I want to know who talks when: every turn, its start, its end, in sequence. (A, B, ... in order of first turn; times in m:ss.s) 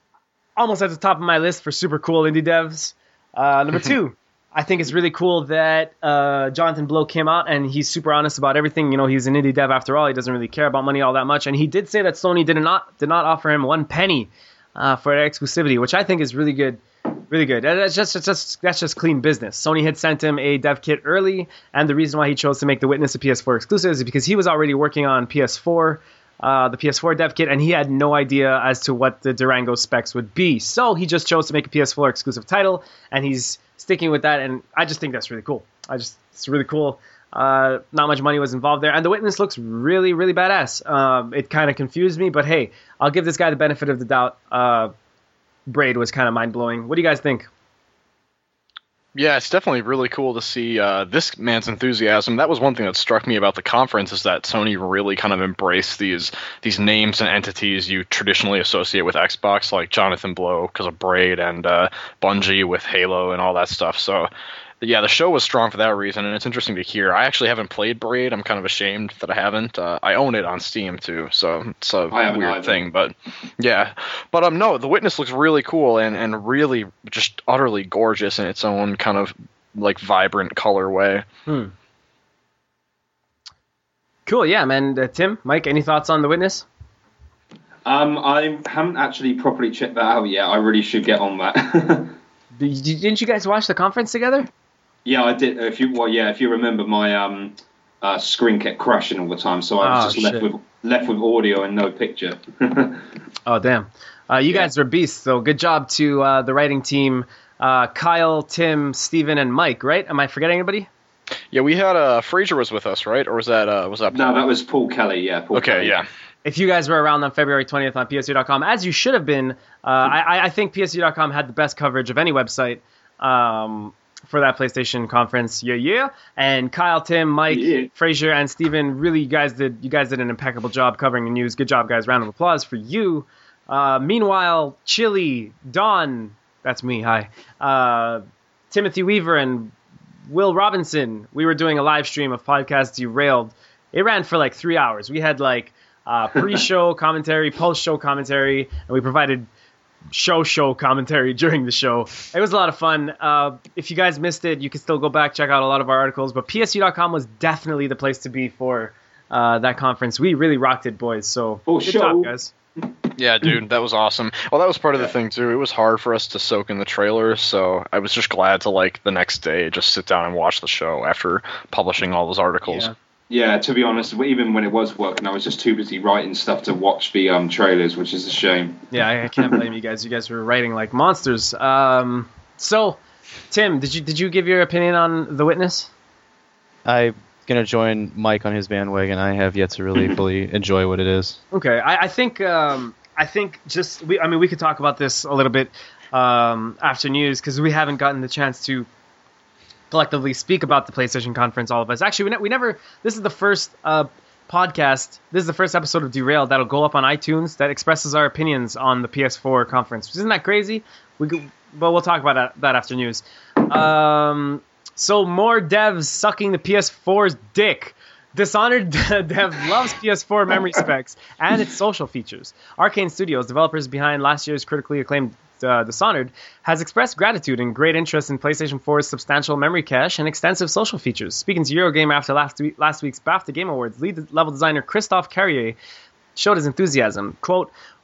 0:00.6-0:44.9 A
0:45.7-0:47.5 A
0:49.1-1:04.3 B
1:04.8-1:21.2 B
1:12.1-1:12.8 C
1:21.5-1:21.7 A
1:24.2-1:26.6 A
1:27.8-1:32.1 C
1:32.6-1:34.5 A
1:35.0-1:43.0 C
1:39.8-1:40.5 A
1:43.4-1:50.9 A
1:51.5-1:54.4 B
1:54.1-1:55.9 C
1:55.5-1:56.0 B
1:56.4-2:19.7 A
2:07.5-2:07.9 C
2:20.3-2:29.5 A
2:30.1-2:42.5 A
2:41.7-2:42.3 C
2:43.2-2:52.9 B
2:52.7-2:52.9 A
2:53.3-2:58.8 C
2:58.9-3:03.0 A
3:03.5-3:05.9 A
3:06.8-3:11.4 D
3:11.5-3:18.9 A
3:19.9-3:55.8 A
3:56.4-3:57.7 A